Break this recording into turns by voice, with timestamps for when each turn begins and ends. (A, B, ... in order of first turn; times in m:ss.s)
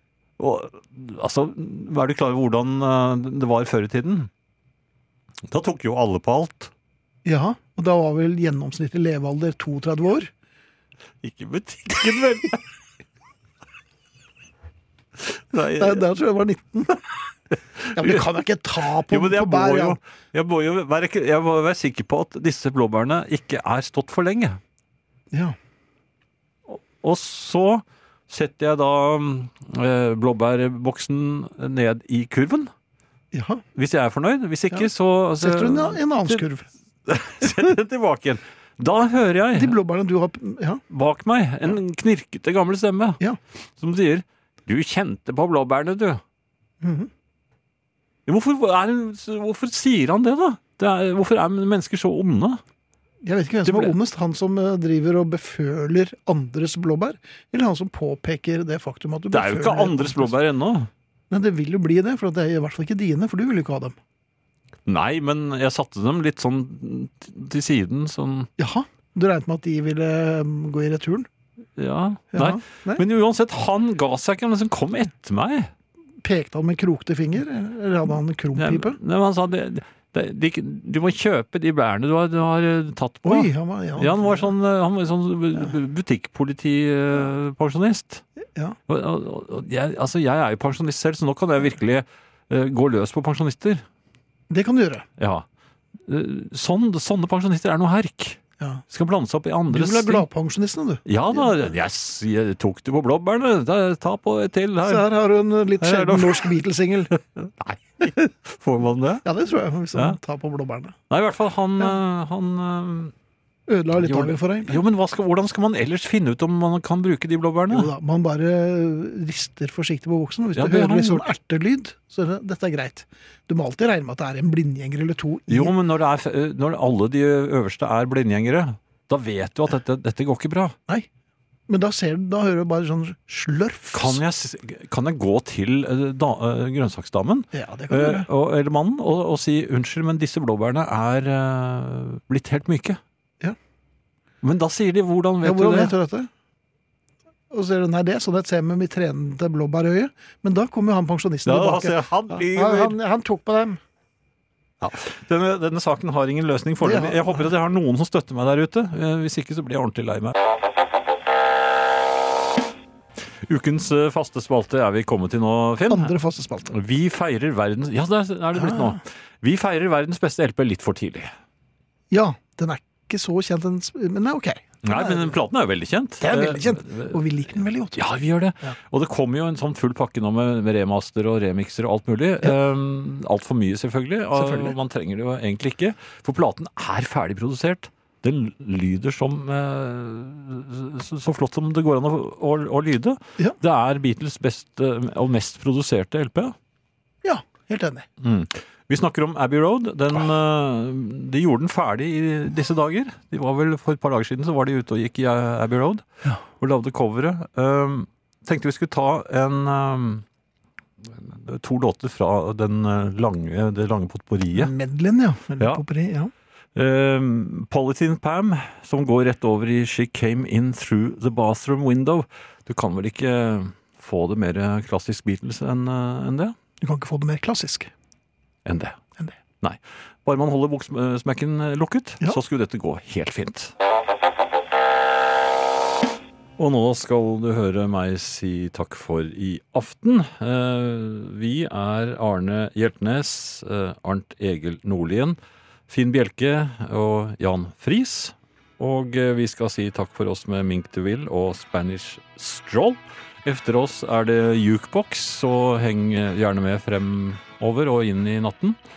0:00.4-0:04.3 A
0:05.5-0:06.7 A
0:07.2-0:10.3 B
0:11.2-0:12.6 A
0:15.2-0:16.0 A
0:15.8-0:17.0 B
0:17.5-0:18.2 A
0:17.9-0:20.0 B
0:19.1-0:24.6 A
0:26.7-0:32.7 A
0:33.3-0:33.6 B
0:33.7-0:36.4 A
0:34.7-0:36.7 B
0:37.0-0:39.8 A
0:39.5-0:40.8 B
0:40.9-0:43.2 A
0:43.8-0:46.2 A
0:46.8-0:47.1 B
0:48.3-0:52.6 A
0:53.2-1:00.3 B
0:53.6-0:54.0 A
0:59.3-1:00.9 A
1:01.3-1:04.0 B
1:04.8-1:08.5 A
1:08.6-1:11.3 B
1:11.8-1:15.7 A
1:12.3-1:13.0 B
1:16.2-1:19.0 B
1:18.5-1:28.2 A
1:23.2-1:24.5 B
1:28.9-1:33.8 A
1:34.5-1:35.0 B
1:35.2-1:35.4 A
1:36.0-1:40.3 A
1:39.7-1:41.7 B
1:41.0-1:45.0 A
1:44.8-1:47.1 B
1:45.8-1:46.5 A
1:47.1-1:49.2 A
1:49.2-1:51.0 B
1:51.1-1:53.1 A
1:53.7-1:54.8 B
1:54.0-1:57.9 A
1:57.7-2:05.7 B
2:00.5-2:01.3 A
2:05.5-2:10.8 A
2:11.7-2:14.2 B
2:13.9-2:23.0 A
2:17.5-2:18.3 B
2:24.4-2:25.9 A
2:25.4-2:26.3 B
2:27.5-2:33.8 B
2:31.4-2:33.0 A
2:34.8-2:40.3 A
2:36.8-2:37.5 B
2:43.3-2:46.1 A
2:45.9-2:46.7 B
2:46.7-2:51.3 A
2:48.5-2:49.0 B
2:52.1-2:55.4 B
2:54.8-2:57.2 A
2:56.2-2:58.8 B
2:57.9-3:16.6 A
3:04.3-3:04.8 B
3:17.2-3:18.0 B
3:18.2-3:26.0 A
3:26.6-3:30.2 A
3:31.0-3:34.7 A
3:34.5-3:36.3 B
3:36.7-3:46.6 A
3:46.8-3:47.9 B
3:48.6-3:49.0 A
3:49.6-3:53.7 A
3:56.6-4:05.4 A
4:05.9-4:18.8 A